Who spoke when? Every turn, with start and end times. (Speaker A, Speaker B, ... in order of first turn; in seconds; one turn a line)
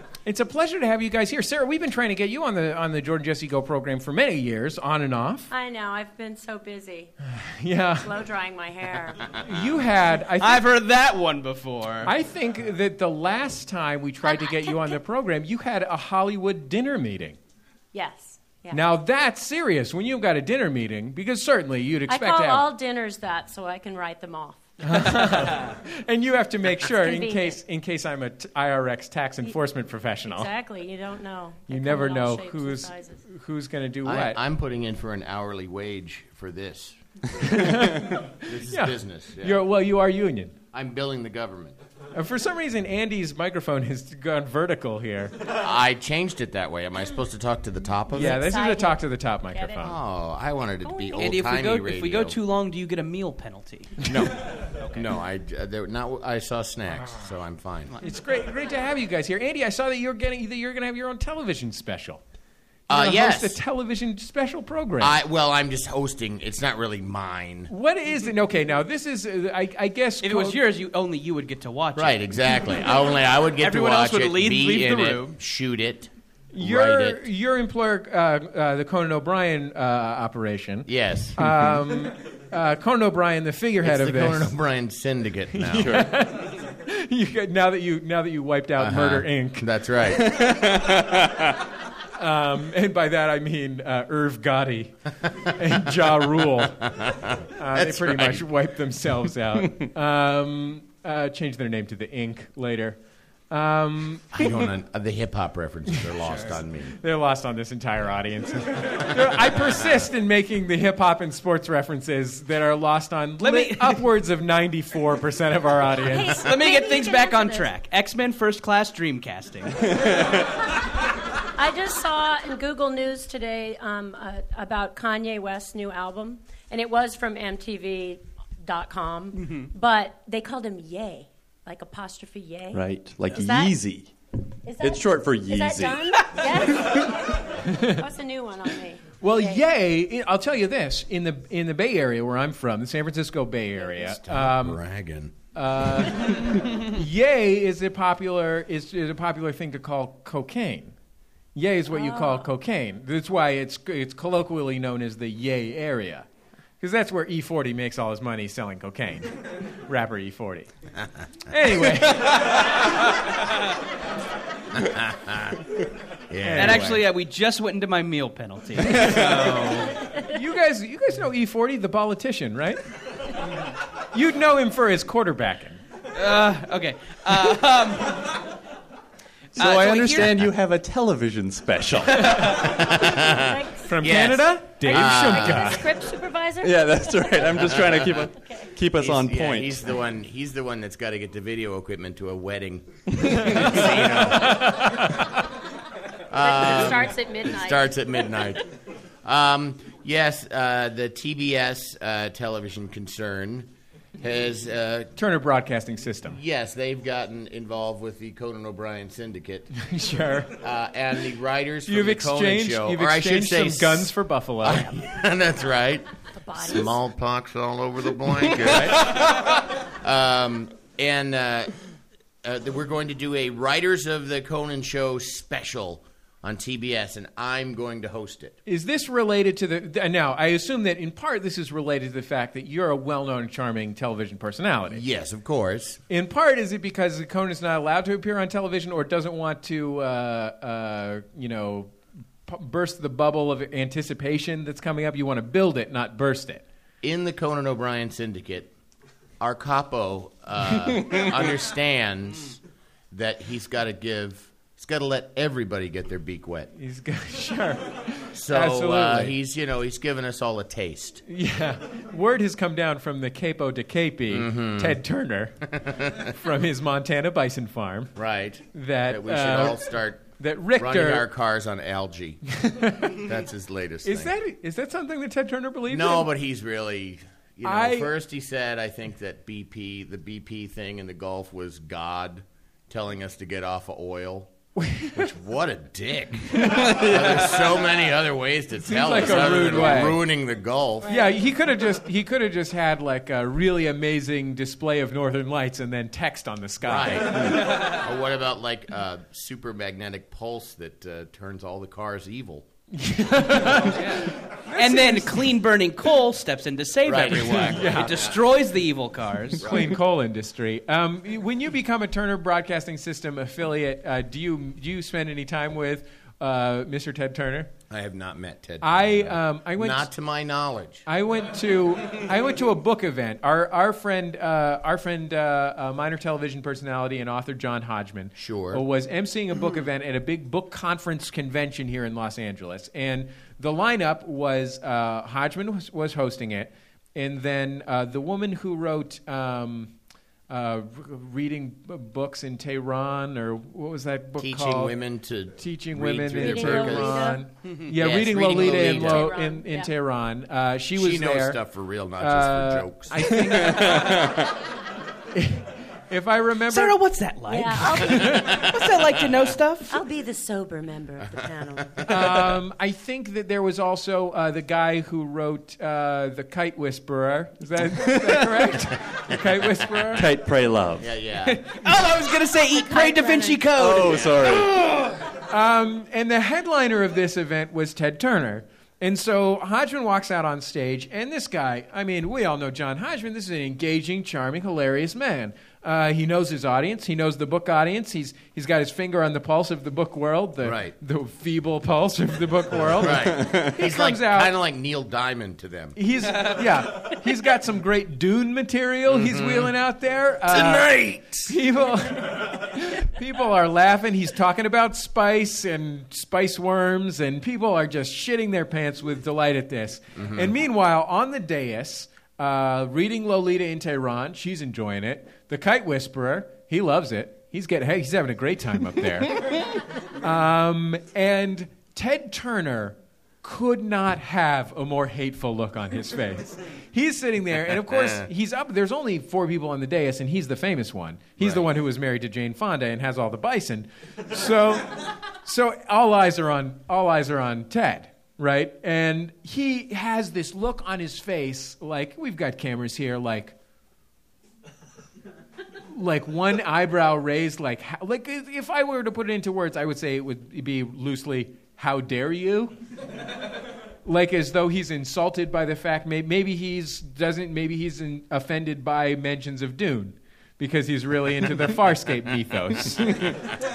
Speaker A: 0.2-5.5
Speaker B: 5.5-7.1
Speaker A: 7.3-8.1
Speaker B: 8.0-9.4
Speaker A: 9.3-10.7
Speaker C: 10.4-12.1
Speaker A: 12.0-17.4
Speaker B: 14.2-14.9
Speaker B: 17.9-18.8
Speaker A: 18.7-22.6
Speaker B: 22.1-25.1
Speaker A: 24.8-30.5
Speaker B: 26.8-27.6
Speaker B: 30.2-33.2
Speaker A: 31.7-34.4
Speaker D: 34.0-37.0
Speaker A: 37.4-40.5
Speaker D: 37.6-39.6
Speaker D: 40.7-41.8
Speaker A: 42.1-45.4
Speaker D: 45.5-48.5
Speaker A: 48.1-50.0
Speaker B: 48.2-49.9
Speaker D: 49.8-52.4
Speaker B: 50.8-51.2
Speaker C: 51.2-54.1
Speaker D: 54.0-57.9
Speaker A: 58.0-62.2
Speaker D: 62.9-63.6
Speaker A: 62.9-65.2
Speaker D: 65.0-67.7
Speaker A: 67.7-70.6
Speaker C: 70.2-72.7
Speaker D: 72.0-77.2
Speaker C: 73.6-75.3
Speaker A: 76.5-84.5
Speaker D: 80.9-81.6
Speaker D: 83.8-86.0
Speaker A: 85.5-89.7
Speaker E: 85.8-86.1
Speaker D: 88.8-90.4
Speaker E: 90.4-91.0
Speaker A: 92.2-96.9
Speaker D: 96.8-98.5
Speaker A: 97.5-103.0
Speaker A: 103.5-104.6
Speaker D: 104.3-107.0
Speaker C: 106.2-106.5
Speaker A: 106.9-116.4
Speaker C: 113.4-114.0
Speaker B: 116.0-117.7
Speaker C: 116.4-120.0
Speaker B: 121.5-133.8
Speaker E: 132.7-134.1
Speaker B: 134.6-139.6
Speaker E: 134.8-136.2
Speaker A: 137.6-138.0
Speaker A: 139.2-144.8
Speaker D: 144.0-145.3
Speaker A: 145.5-150.9
Speaker A: 151.5-156.2
Speaker B: 151.9-152.5
Speaker A: 156.8-160.7
Speaker A: 161.5-162.7
Speaker D: 164.7-165.6
Speaker D: 166.3-167.1
Speaker A: 166.4-167.0
Speaker C: 166.6-169.9
Speaker A: 170.2-172.8
Speaker A: 174.1-175.8
Speaker C: 176.1-178.4
Speaker E: 179.6-182.5
Speaker C: 179.6-180.3
Speaker A: 182.3-182.7
Speaker D: 182.5-185.8
Speaker B: 183.1-183.9
Speaker A: 183.8-185.8
Speaker B: 184.8-188.7
Speaker E: 186.6-189.8
Speaker D: 188.9-195.0
Speaker A: 193.4-195.0
Speaker D: 196.3-198.6
Speaker B: 196.4-198.6
Speaker D: 199.2-205.1
Speaker A: 205.2-206.4
Speaker D: 206.2-209.7
Speaker A: 209.7-210.5
Speaker D: 210.6-216.1
Speaker A: 211.9-215.0
Speaker B: 216.3-217.0
Speaker D: 216.6-221.7
Speaker D: 222.4-228.6
Speaker A: 228.6-235.0
Speaker D: 234.9-236.0
Speaker A: 236.1-241.9
Speaker A: 242.5-246.6
Speaker D: 247.0-248.7
Speaker D: 249.4-252.6
Speaker D: 253.1-256.7
Speaker A: 256.8-259.3
Speaker D: 258.3-261.2
Speaker A: 261.2-268.1
Speaker D: 264.3-265.0
Speaker D: 265.8-266.3
Speaker D: 268.1-272.4
Speaker A: 268.7-271.2
Speaker A: 272.6-273.2
Speaker D: 273.0-274.3
Speaker A: 274.0-276.3
Speaker D: 275.9-284.5
Speaker A: 277.6-278.1
Speaker A: 284.8-285.2
Speaker D: 285.1-291.3
Speaker A: 288.8-290.2
Speaker A: 291.0-297.6
Speaker D: 296.8-302.7
Speaker A: 302.9-305.5
Speaker C: 303.9-309.8
Speaker D: 307.0-308.4
Speaker A: 307.5-308.3
Speaker A: 309.6-317.7
Speaker D: 309.6-309.9
Speaker D: 317.9-321.0
Speaker A: 318.8-320.1
Speaker A: 321.1-339.9
Speaker D: 328.4-328.8
Speaker A: 340.5-344.9
Speaker D: 344.4-349.3
Speaker A: 345.5-351.6
Speaker B: 346.4-347.4
Speaker B: 348.6-349.9
Speaker D: 350.9-353.3
Speaker A: 352.2-354.3
Speaker E: 353.8-354.4
Speaker A: 355.3-357.0
Speaker C: 356.7-360.0
Speaker B: 357.5-358.7
Speaker B: 359.9-362.1
Speaker D: 361.8-362.1
Speaker A: 362.0-370.2
Speaker E: 370.1-371.1
Speaker D: 371.0-371.6
Speaker C: 371.4-375.2
Speaker B: 372.7-373.7
Speaker E: 373.8-374.8
Speaker D: 374.0-374.6
Speaker A: 375.4-394.5
Speaker D: 390.6-390.9
Speaker D: 393.0-396.0
Speaker A: 395.9-400.9
Speaker D: 399.1-399.7
Speaker D: 400.5-401.6
Speaker A: 401.4-419.6
Speaker D: 410.1-410.5
Speaker A: 420.2-443.5
Speaker D: 427.8-428.3
Speaker D: 431.4-431.6
Speaker A: 445.9-452.7
Speaker A: 454.0-463.4